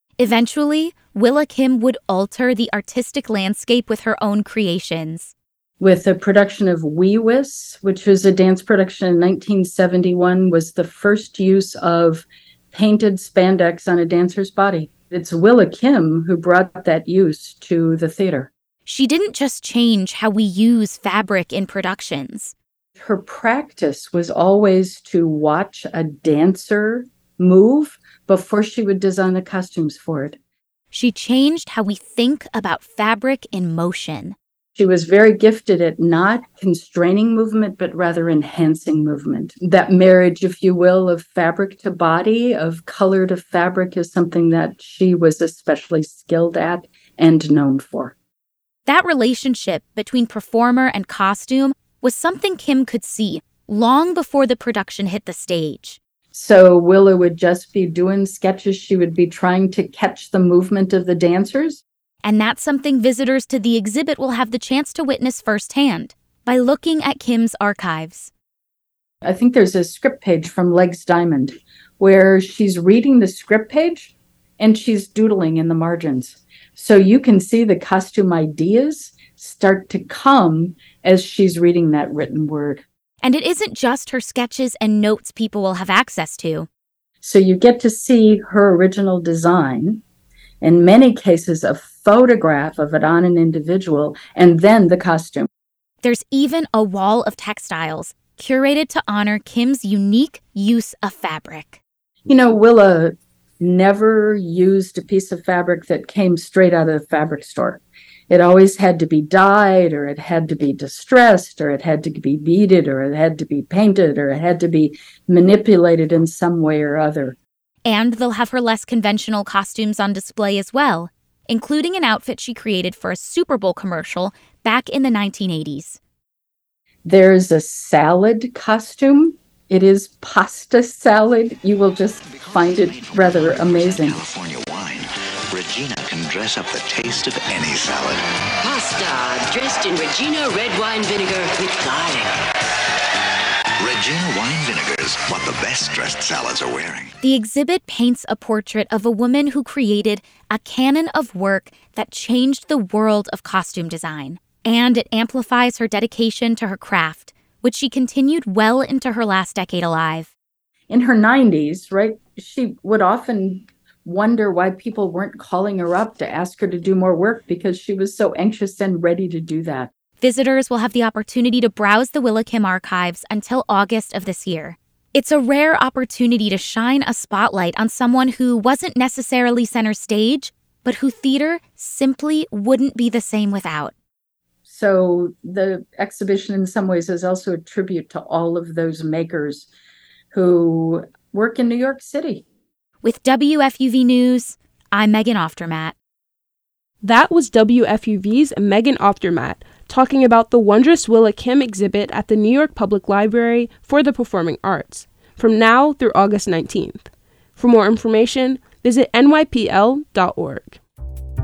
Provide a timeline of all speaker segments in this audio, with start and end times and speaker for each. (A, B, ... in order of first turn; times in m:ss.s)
0:00.2-0:05.3 A
0:05.8-0:18.5 B
0:18.8-0:22.5 A
0:23.0-0:30.4 B
0:30.9-0:34.4 A
0:34.7-0:48.1 B
0:48.8-0:56.0 A
0:56.3-1:01.8 B
1:02.2-1:08.3 A
1:09.2-1:22.8 B
1:23.2-1:26.7 A
1:27.2-1:30.0 B
1:30.6-1:35.5 B
1:36.0-1:41.8 A
1:42.2-1:57.4 B
1:57.8-2:06.0 A
2:07.0-2:14.2 B
2:12.3-2:18.3 C
2:18.6-2:22.3 D
2:23.8-2:27.1 C
2:27.2-2:40.3 A
2:40.9-2:49.9 B
2:50.2-3:03.9 A
3:04.6-3:09.7 B
3:10.3-3:12.4 B
3:13.0-3:15.9 A
3:17.0-3:30.8 E